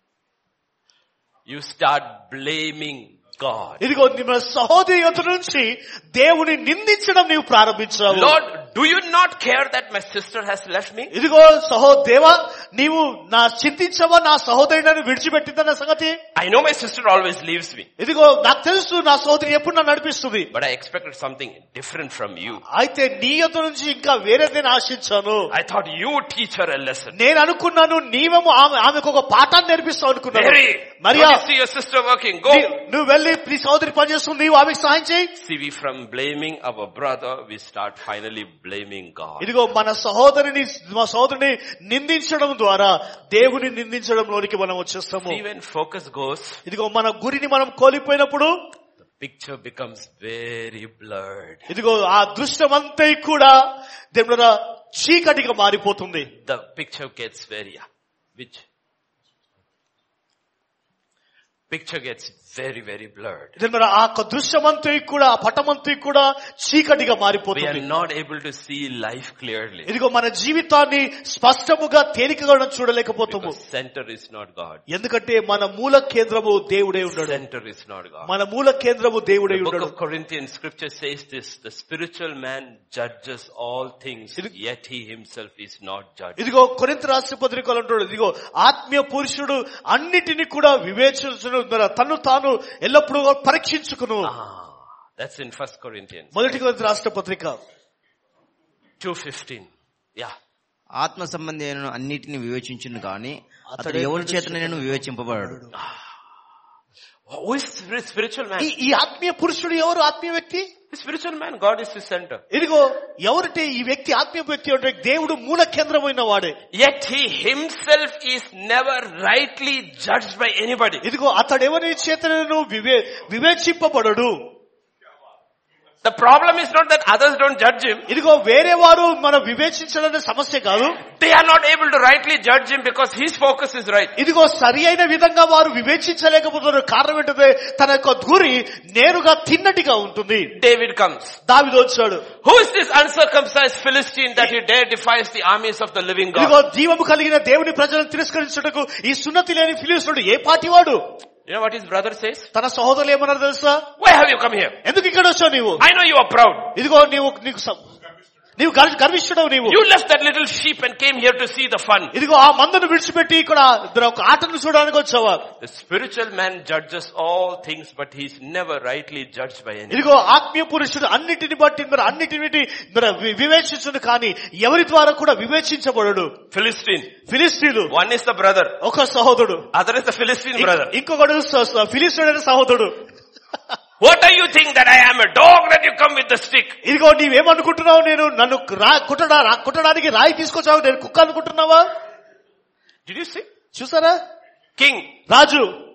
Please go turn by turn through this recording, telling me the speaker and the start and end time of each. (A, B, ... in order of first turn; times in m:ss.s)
0:01.5-0:03.8 A
0:03.8-0:08.3 B
0:08.1-0:11.1 A
0:11.1-0:16.2 B
0:16.3-0:17.9 A
0:18.0-0:20.5 B
0:20.5-0:22.6 A
0:22.7-0:25.5 B
0:25.5-0:27.1 A
0:27.2-0:31.4 B
0:30.3-0:32.7 A
0:32.5-0:35.3 B
0:35.3-0:39.5 A
0:39.4-0:45.4 B
0:45.2-0:46.6 A
0:46.7-0:48.5 B
0:49.2-0:51.6 A
0:51.7-0:53.5 B
0:54.1-0:56.3 B
0:56.4-0:58.6 A
1:01.7-1:03.5 A
1:03.6-1:07.8 B
1:07.5-1:09.9 A
1:09.9-1:13.5 B
1:13.2-1:14.8 A
1:14.9-1:17.4 B
1:17.1-1:18.3 A
1:18.3-1:19.9 B
1:19.5-1:26.4 A
1:26.4-1:34.3 B
1:34.2-1:36.6 A
1:36.3-1:37.6 B
1:39.0-1:40.3 A
1:41.0-1:45.6 C
1:43.7-1:45.7 B
1:45.7-1:46.0 A
1:47.3-1:48.7 A
1:48.6-1:50.7 B
1:50.9-1:52.4 A
1:52.5-1:56.5 B
1:56.7-2:01.0 A
2:01.0-2:04.3 B
2:06.0-2:08.1 A
2:08.1-2:11.0 B
2:11.1-2:14.2 A
2:14.2-2:20.5 B
2:20.5-2:21.4 A
2:21.5-2:22.2 B
2:22.4-2:26.6 A
2:26.3-2:31.0 B
2:31.4-2:32.5 A
2:32.5-2:33.8 B
2:34.0-2:34.8 A
2:34.8-2:35.8 B
2:35.8-2:36.7 A
2:36.7-2:37.8 B
2:38.6-2:39.8 B
2:39.6-2:42.1 A
2:42.1-2:45.4 B
2:45.6-2:50.1 A
2:49.9-2:56.3 B
2:56.5-2:57.2 A
2:57.3-2:57.9 B
2:57.9-2:58.8 A
2:58.8-2:59.7 B
2:59.7-3:00.9 A
3:00.6-3:02.9 B
3:04.0-3:06.8 A
3:06.8-3:11.8 B
3:13.0-3:13.5 A
3:13.7-3:14.2 B
3:14.8-3:15.1 A
3:15.3-3:15.7 B